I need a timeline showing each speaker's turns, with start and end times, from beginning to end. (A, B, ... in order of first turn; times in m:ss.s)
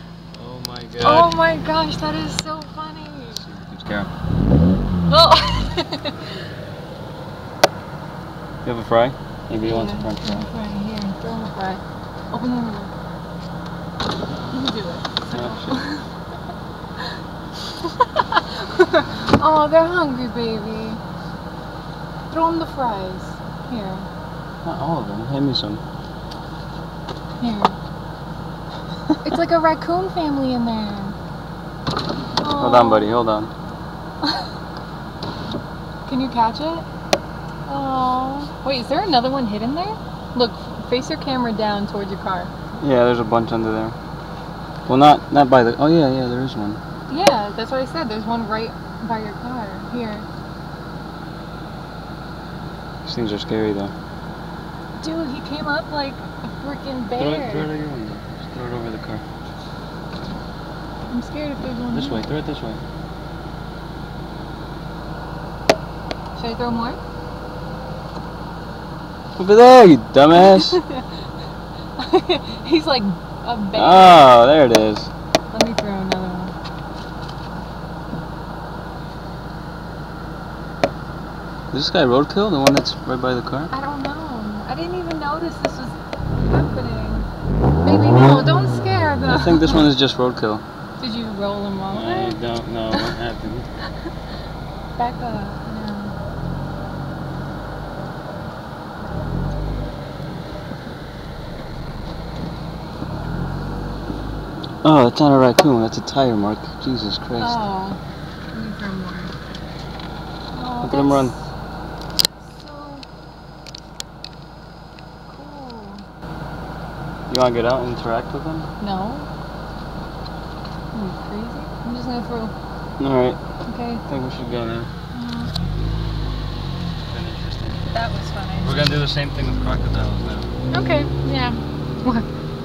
0:00.3-0:01.4 A
0:01.0-0:03.4 B
0:03.4-0:04.1 A
0:05.1-0:06.3 B
0:08.6-0:10.5 A
0:09.6-0:11.8 B
0:12.3-0:12.9 B
0:14.5-0:16.0 B
0:15.3-0:15.8 A
0:18.1-0:21.0 B
0:22.3-0:24.1 B
0:24.6-0:25.8 A
0:27.4-0:27.8 B
0:29.2-0:31.1 B
0:32.4-0:33.2 B
0:32.5-0:33.5 A
0:36.0-0:36.8 B
0:37.7-0:42.5 B
0:42.8-0:44.0 A
0:44.9-0:46.8 A
0:47.1-0:50.3 B
0:53.0-0:53.9 A
0:55.0-0:57.7 B
0:57.1-0:59.2 A
1:01.1-1:02.2 B
1:01.9-1:02.8 A
1:06.4-1:07.0 B
1:09.4-1:10.8 A
1:10.6-1:11.0 B
1:12.0-1:14.3 B
1:13.7-1:15.1 A
1:15.5-1:16.5 B
1:21.7-1:23.7 A
1:23.7-1:27.3 B
1:27.8-1:29.8 B
1:29.3-1:30.6 A
1:31.0-1:32.4 B
1:31.9-1:33.7 A
1:35.0-1:36.1 B
1:44.8-1:47.6 A
1:47.4-1:48.0 B
1:48.5-1:49.3 B
1:50.5-1:51.3 B
1:50.8-1:51.3 A
1:52.5-1:53.0 B
1:55.3-1:56.0 B
1:57.3-1:58.7 A
1:58.8-1:59.3 B
2:00.9-2:02.5 B
2:03.0-2:03.4 A
2:03.7-2:04.0 B
2:04.1-2:04.9 A
2:05.1-2:05.5 B
2:07.1-2:07.8 A
2:07.9-2:08.8 B
2:08.6-2:10.5 A
2:10.7-2:12.3 B